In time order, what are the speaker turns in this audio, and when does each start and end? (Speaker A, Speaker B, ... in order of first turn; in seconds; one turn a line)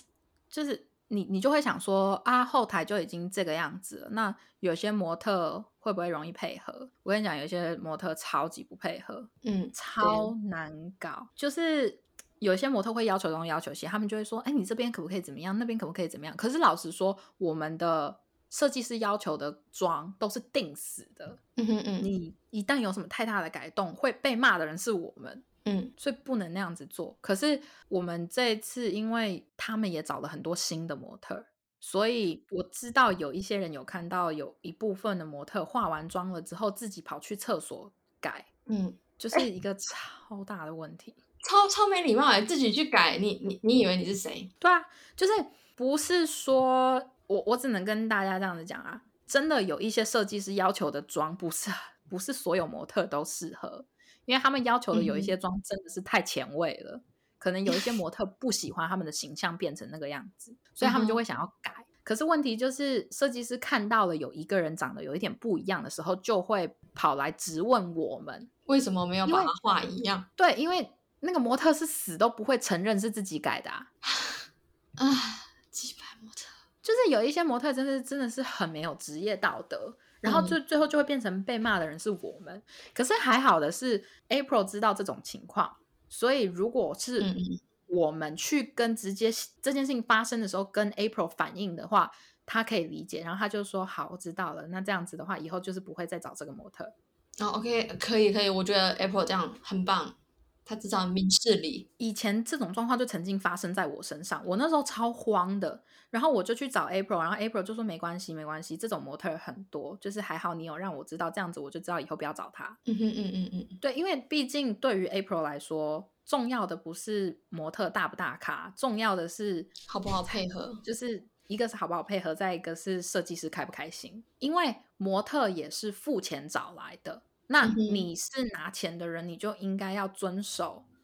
Speaker A: 0.5-21.4
Speaker B: 9.4-10.3
Speaker B: 21.6-22.1
Speaker A: 22.0-25.4
Speaker B: 25.6-25.9
Speaker A: 26.0-38.5
Speaker B: 38.7-39.4
Speaker A: 39.2-41.2
Speaker B: 41.4-44.5
Speaker A: 44.6-68.5
Speaker B: 54.9-55.3
Speaker B: 60.8-61.2
Speaker B: 68.7-70.3
Speaker A: 69.3-69.5
Speaker A: 70.4-73.9
Speaker B: 74.1-74.4
Speaker B: 75.0-76.5
Speaker A: 76.8-87.3
Speaker B: 80.2-80.6
Speaker B: 87.2-87.6
Speaker A: 87.9-96.9
Speaker B: 97.4-101.9
Speaker A: 102.0-112.8
Speaker B: 112.9-113.8
Speaker A: 113.8-119.7
Speaker B: 119.9-120.8
Speaker A: 120.8-130.9
Speaker B: 127.6-128.1